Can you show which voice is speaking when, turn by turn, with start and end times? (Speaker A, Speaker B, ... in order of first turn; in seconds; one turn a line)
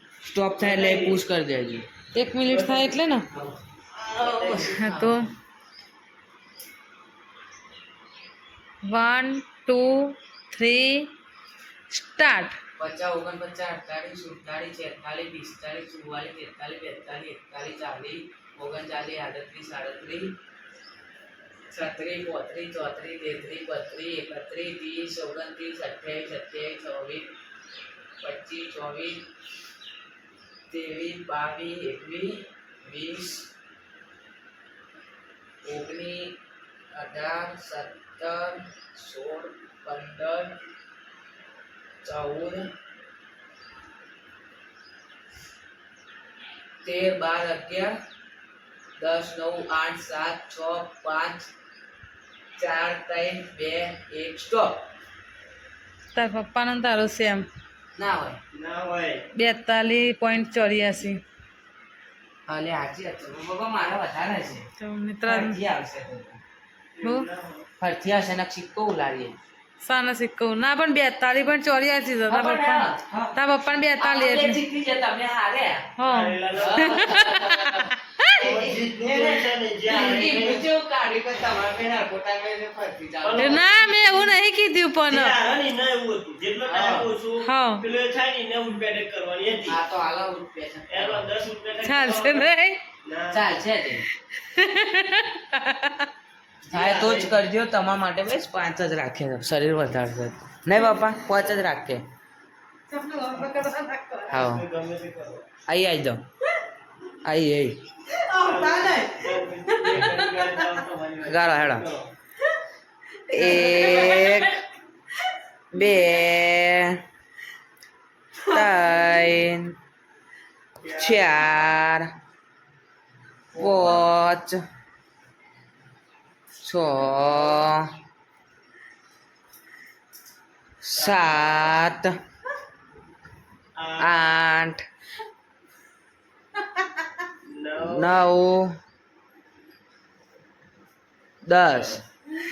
Speaker A: 0.3-1.9
Speaker B: 0.6-1.2
Speaker C: 2.1-3.3
Speaker B: 2.4-4.8
Speaker A: 4.1-5.3
Speaker C: 4.6-5.3
Speaker C: 8.8-11.1
Speaker C: 11.9-12.6
Speaker A: 12.8-20.4
Speaker A: 21.7-27.3
Speaker A: 28.2-29.2
Speaker A: 30.7-33.5
Speaker A: 35.6-36.4
Speaker A: 36.9-40.5
Speaker A: 42.0-42.7
Speaker A: 46.8-48.0
Speaker A: 49.0-51.5
Speaker A: 52.6-54.9
Speaker C: 56.1-57.5
Speaker A: 58.0-58.4
Speaker B: 58.5-59.2
Speaker C: 59.4-61.2
Speaker A: 62.5-64.7
Speaker C: 64.8-65.6
Speaker A: 65.2-66.4
Speaker B: 67.0-67.7
Speaker C: 67.0-67.3
Speaker A: 67.8-69.4
Speaker C: 69.8-74.6
Speaker A: 72.3-73.4
Speaker A: 74.0-76.0
Speaker C: 76.0-78.4
Speaker B: 76.0-77.3
Speaker A: 76.5-83.7
Speaker B: 78.4-80.7
Speaker B: 83.2-83.7
Speaker C: 83.4-85.4
Speaker B: 85.1-89.8
Speaker A: 86.7-87.1
Speaker C: 87.4-87.8
Speaker A: 89.7-91.3
Speaker B: 90.9-92.5
Speaker C: 91.8-92.8
Speaker B: 93.0-93.5
Speaker A: 93.3-94.1
Speaker C: 94.3-96.1
Speaker B: 96.7-97.4
Speaker A: 96.7-102.0
Speaker C: 100.8-101.2
Speaker C: 102.9-104.4
Speaker B: 104.3-105.5
Speaker A: 104.3-104.6
Speaker A: 105.7-106.2
Speaker A: 107.2-107.8
Speaker C: 108.1-110.8
Speaker B: 108.3-112.1
Speaker A: 111.2-111.9
Speaker C: 113.3-114.6
Speaker A: 113.3-114.5
Speaker A: 115.7-117.0
Speaker C: 118.5-119.3
Speaker A: 118.5-119.8
Speaker B: 120.8-121.8
Speaker A: 121.0-122.1
Speaker B: 123.5-124.1
Speaker A: 123.5-124.6
Speaker A: 126.6-127.9
Speaker B: 127.3-127.7
Speaker A: 130.8-132.2
Speaker B: 130.9-131.8
Speaker B: 133.8-134.4
Speaker A: 134.0-134.8
Speaker C: 136.6-137.0
Speaker B: 137.4-138.3
Speaker A: 137.8-138.8
Speaker A: 141.5-142.0
Speaker B: 141.7-142.0